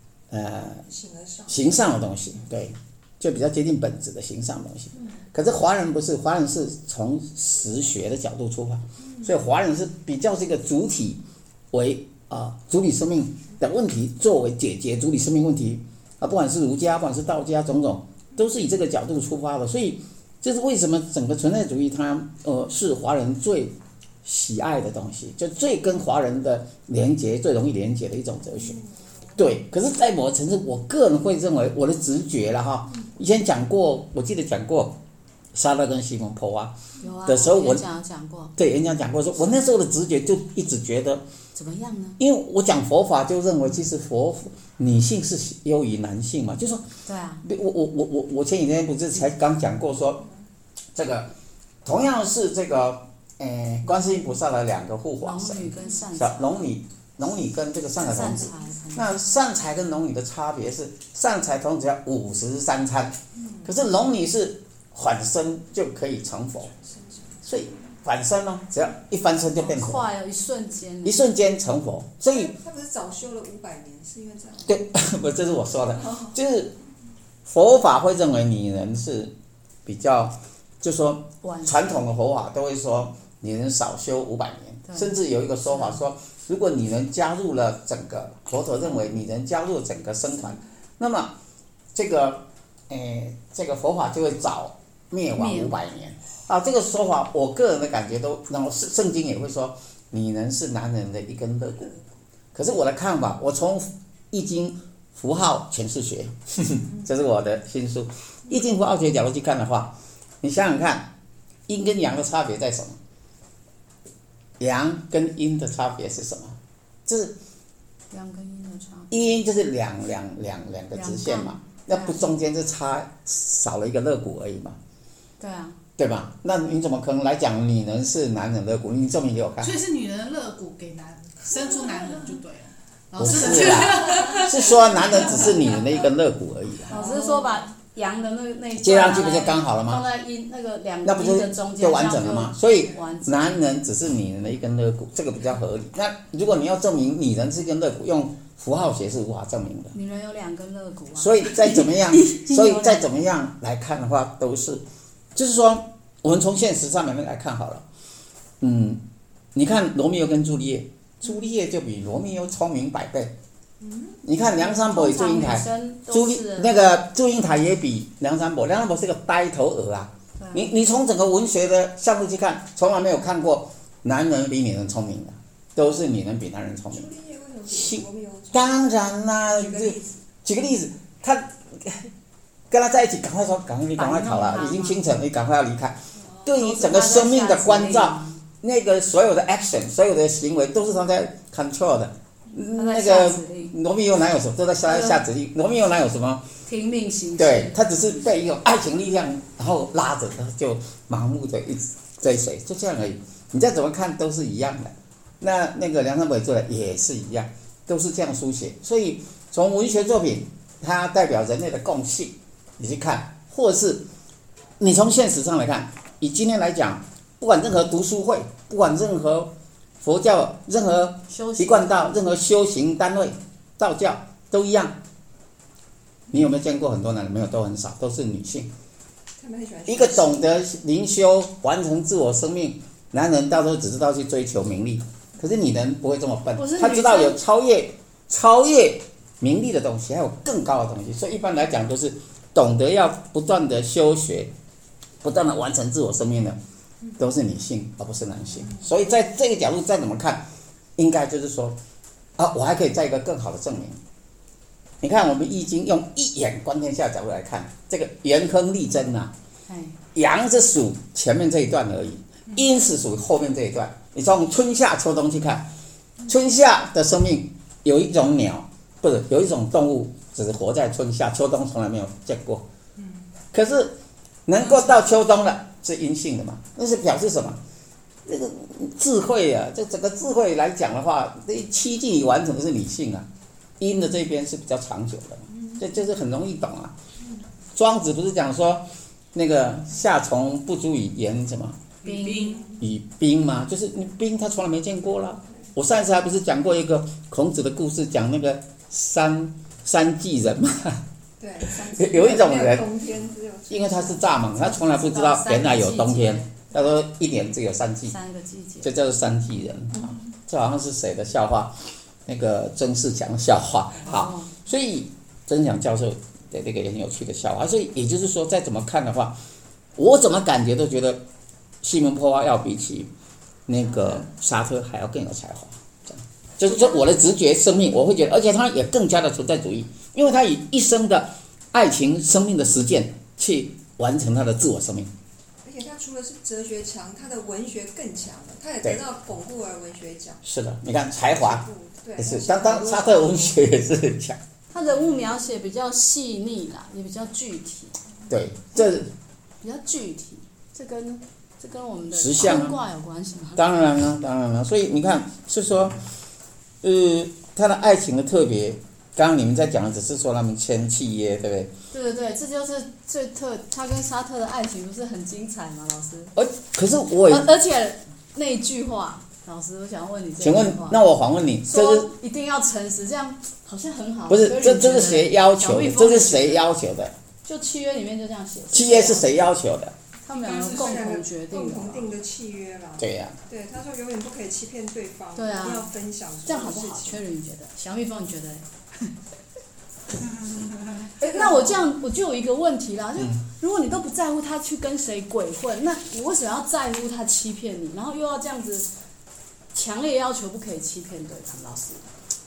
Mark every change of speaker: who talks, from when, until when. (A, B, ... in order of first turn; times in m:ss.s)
0:00.3-0:00.8 A
0:00.9-0:01.6 B
0:01.5-0:28.8 A
0:29.4-0:35.0 A
0:35.5-0:37.8 A
0:37.0-0:38.5 C
0:38.6-0:41.2 A
0:41.5-0:42.2 C
0:42.2-0:46.8 A
0:47.0-0:47.5 C
0:47.4-0:50.2 A
0:50.9-0:51.3 A
0:51.8-1:06.7 A
0:55.2-0:56.5 C
0:58.0-0:59.1 C
1:03.4-1:03.7 B
1:06.8-1:07.4 B
1:07.4-1:10.1 A
1:09.6-1:11.2 C
1:11.0-1:12.5 A
1:12.3-1:14.8 B
1:14.7-1:16.7 A
1:16.0-1:16.3 B
1:17.4-1:19.3 A
1:19.8-1:31.3 A
1:21.4-1:21.9 C
1:24.9-1:25.1 C
1:25.7-1:26.0 C
1:31.9-1:41.9 A
1:35.3-1:35.8 C
1:42.5-1:51.1 A
1:51.7-1:53.0 A
1:54.6-1:57.4 A
1:58.1-1:59.1 C
1:59.1-2:04.8 A
2:00.9-2:02.2 C
2:05.4-2:05.8 C
2:06.0-2:09.8 A
2:09.6-2:15.4 D
2:13.2-2:17.0 A
2:16.9-2:23.6 C
2:16.9-2:17.6 B
2:18.8-2:20.0 A
2:21.0-2:29.9 A
2:29.9-2:33.1 C
2:31.2-2:34.8 A
2:35.3-2:37.8 A
2:38.6-2:43.4 A
2:43.8-2:44.2 B
2:44.2-2:57.0 A
2:44.5-2:46.8 C
2:50.4-2:50.7 C
2:56.9-2:58.9 B
2:57.7-3:02.1 A
2:59.5-3:00.2 B
3:02.7-3:16.5 A
3:04.0-3:05.0 C
3:06.5-3:08.4 C
3:12.7-3:13.7 C
3:14.8-3:15.2 C
3:16.6-3:17.8 C
3:17.4-3:34.0 A
3:34.8-3:45.0 A
3:41.3-3:42.2 C
3:46.3-3:48.7 A
3:49.4-3:50.5 B
3:49.9-4:04.5 A
3:56.5-3:57.4 C
4:05.2-4:06.6 A
4:07.2-4:11.8 A
4:12.4-4:14.0 A
4:15.0-4:19.3 A
4:19.7-4:20.0 C
4:20.1-4:25.7 A
4:26.3-4:32.6 A
4:33.0-4:33.2 D
4:33.5-4:37.6 A
4:38.2-4:43.3 A
4:43.8-4:46.9 A
4:47.7-4:51.8 A
4:52.0-4:52.7 D
4:52.0-4:52.6 C
4:52.8-5:01.0 A
5:01.4-5:04.2 B
5:01.6-5:02.9 A
5:03.7-5:08.2 A
5:04.6-5:06.5 C
5:08.1-5:08.9 C
5:08.8-5:19.4 A
5:14.0-5:14.5 C
5:20.0-5:21.2 A
5:21.8-5:23.1 A
5:23.7-5:35.1 A
5:35.6-5:40.4 B
5:40.4-5:41.6 A
5:41.3-5:43.6 B
5:42.2-5:44.4 A
5:44.7-5:47.9 C
5:48.3-5:49.1 A
5:49.6-5:53.6 C
5:52.1-5:52.8 A
5:53.6-5:56.0 A
5:56.8-6:01.7 A
6:01.9-6:06.3 C
6:06.4-6:07.5 A
6:07.3-6:11.0 C
6:10.4-6:12.1 A
6:11.7-6:16.6 C
6:14.3-6:17.1 A
6:17.4-6:19.4 C
6:18.7-6:19.9 A
6:20.2-6:22.1 C
6:20.4-6:27.2 B
6:23.0-6:23.4 A
6:25.4-6:25.9 C
6:26.4-6:29.1 C
6:31.2-6:38.9 C
6:31.2-6:31.8 B
6:33.2-6:33.4 A
6:39.7-6:42.0 C